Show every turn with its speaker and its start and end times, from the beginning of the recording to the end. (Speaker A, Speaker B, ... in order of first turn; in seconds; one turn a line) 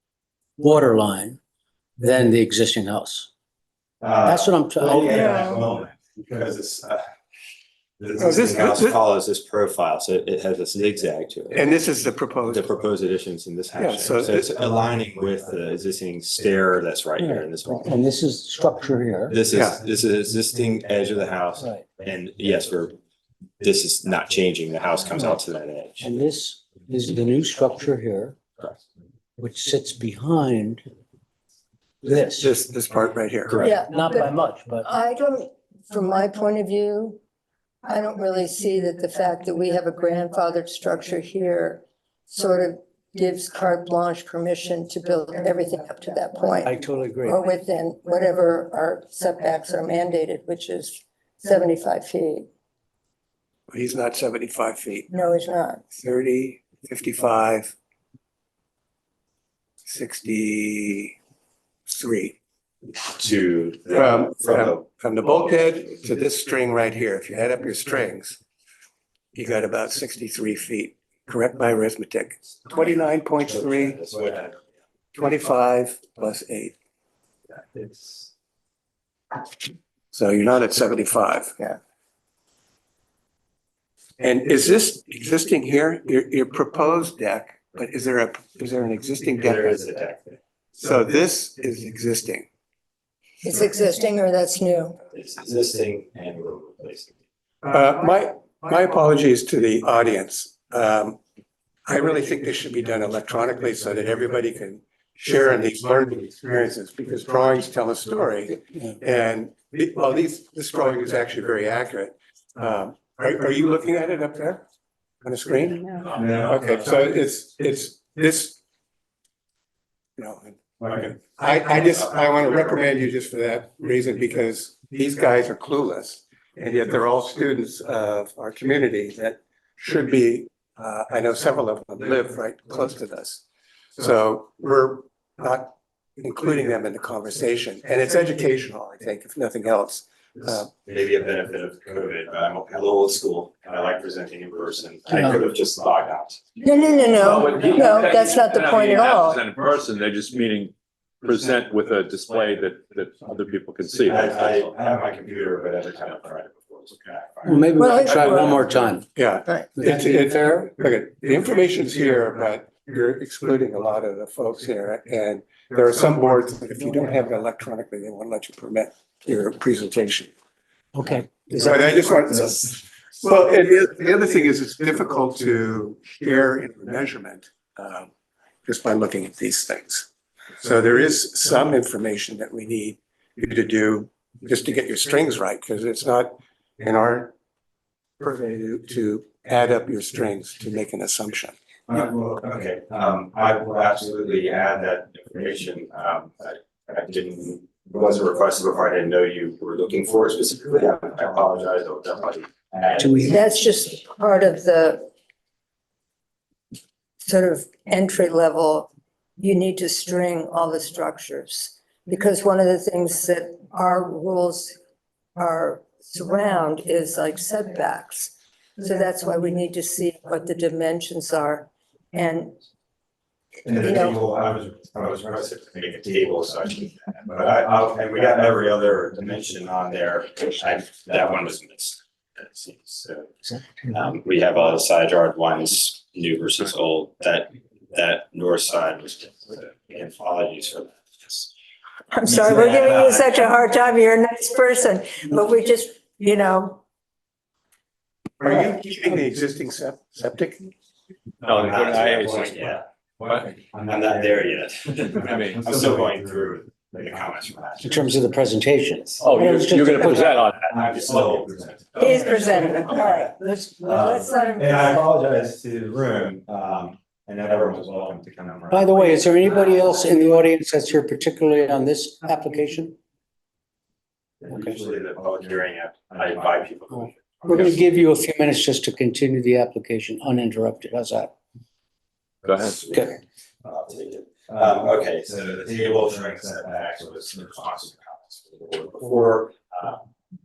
Speaker A: 0.6-1.4
Speaker A: 2.0-3.3
Speaker B: 4.0-7.0
Speaker A: 4.2-5.4
Speaker C: 5.0-5.6
Speaker B: 8.0-11.6
Speaker D: 8.2-9.0
Speaker D: 11.5-12.6
Speaker B: 12.5-17.9
Speaker D: 13.8-14.4
Speaker A: 17.2-19.4
Speaker B: 19.3-23.0
Speaker B: 23.6-26.1
Speaker A: 26.0-28.4
Speaker A: 29.4-30.8
Speaker A: 32.0-32.5
Speaker D: 32.4-33.6
Speaker C: 33.6-34.3
Speaker A: 33.6-34.9
Speaker C: 34.8-37.2
Speaker C: 37.8-46.7
Speaker A: 46.6-47.4
Speaker C: 47.2-52.5
Speaker D: 53.7-55.1
Speaker C: 55.1-55.8
Speaker D: 55.9-57.7
Speaker D: 59.8-61.1
Speaker D: 61.9-62.4
Speaker B: 63.1-64.8
Speaker D: 63.9-68.4
Speaker D: 69.3-74.0
Speaker B: 73.8-74.6
Speaker D: 75.1-76.7
Speaker B: 77.7-78.2
Speaker D: 80.1-81.8
Speaker D: 84.2-89.7
Speaker B: 89.4-90.3
Speaker D: 90.7-92.5
Speaker C: 93.4-95.0
Speaker B: 95.1-97.1
Speaker D: 97.6-101.2
Speaker D: 101.8-114.6
Speaker D: 115.2-118.6
Speaker D: 120.2-133.4
Speaker D: 134.0-140.7
Speaker B: 140.8-146.4
Speaker C: 146.6-149.4
Speaker E: 147.2-154.5
Speaker B: 154.1-158.5
Speaker A: 157.4-159.1
Speaker C: 157.8-158.5
Speaker D: 159.2-170.3
Speaker A: 159.8-160.1
Speaker A: 170.9-171.8
Speaker D: 171.5-178.1
Speaker D: 178.6-180.1
Speaker D: 180.6-187.3
Speaker D: 188.2-191.5
Speaker B: 191.9-203.4
Speaker A: 203.0-203.4
Speaker C: 203.3-205.1
Speaker C: 207.2-214.8
Speaker C: 215.3-222.6
Speaker B: 223.6-241.5
Speaker C: 223.8-224.2
Speaker C: 242.1-246.8
Speaker B: 242.3-243.2
Speaker D: 248.4-250.7
Speaker E: 251.4-252.6
Speaker B: 251.5-252.8
Speaker E: 253.2-253.5
Speaker B: 253.6-258.0
Speaker E: 255.2-255.6
Speaker A: 257.8-260.3
Speaker E: 259.2-260.7
Speaker B: 260.6-263.1
Speaker C: 262.0-264.8
Speaker B: 263.8-269.5
Speaker A: 268.7-273.0
Speaker B: 274.4-277.8
Speaker A: 277.5-281.3
Speaker E: 282.4-282.8
Speaker B: 282.6-290.0